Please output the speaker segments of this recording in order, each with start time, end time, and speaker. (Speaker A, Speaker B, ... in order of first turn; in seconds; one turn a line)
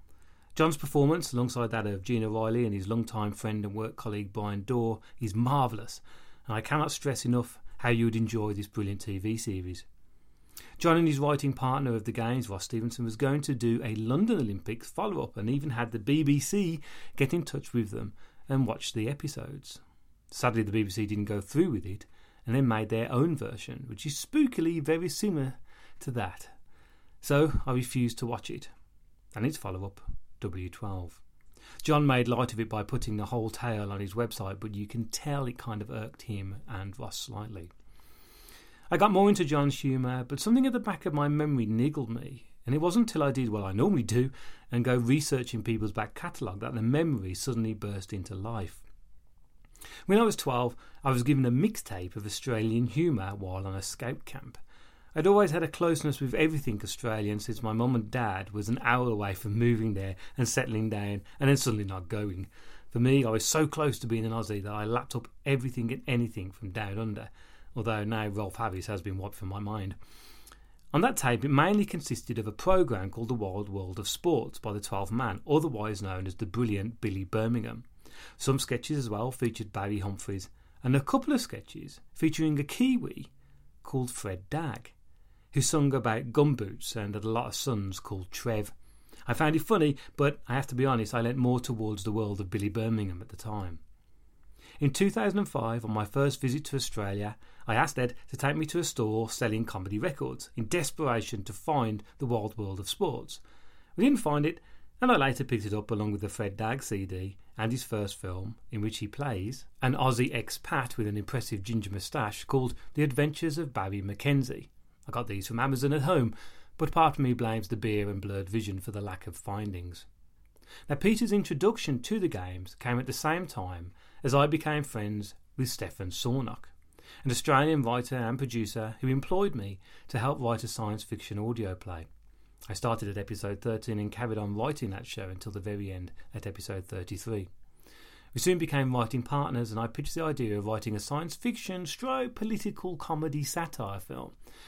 Speaker A: 0.5-9.8
Speaker A: 10.8-26.5
Speaker A: 27.2-28.7
Speaker A: 29.3-31.2
Speaker A: 31.8-37.7
Speaker A: 38.9-48.8
Speaker A: 50.0-54.6
Speaker A: 55.1-70.0
Speaker A: 70.9-77.8
Speaker A: 78.4-83.3
Speaker A: 83.8-84.9
Speaker A: 85.5-88.7
Speaker A: 89.2-93.8
Speaker A: 94.8-103.4
Speaker A: 104.0-120.0
Speaker A: 120.9-126.7
Speaker A: 127.2-132.1
Speaker A: 132.7-137.5
Speaker A: 138.3-144.3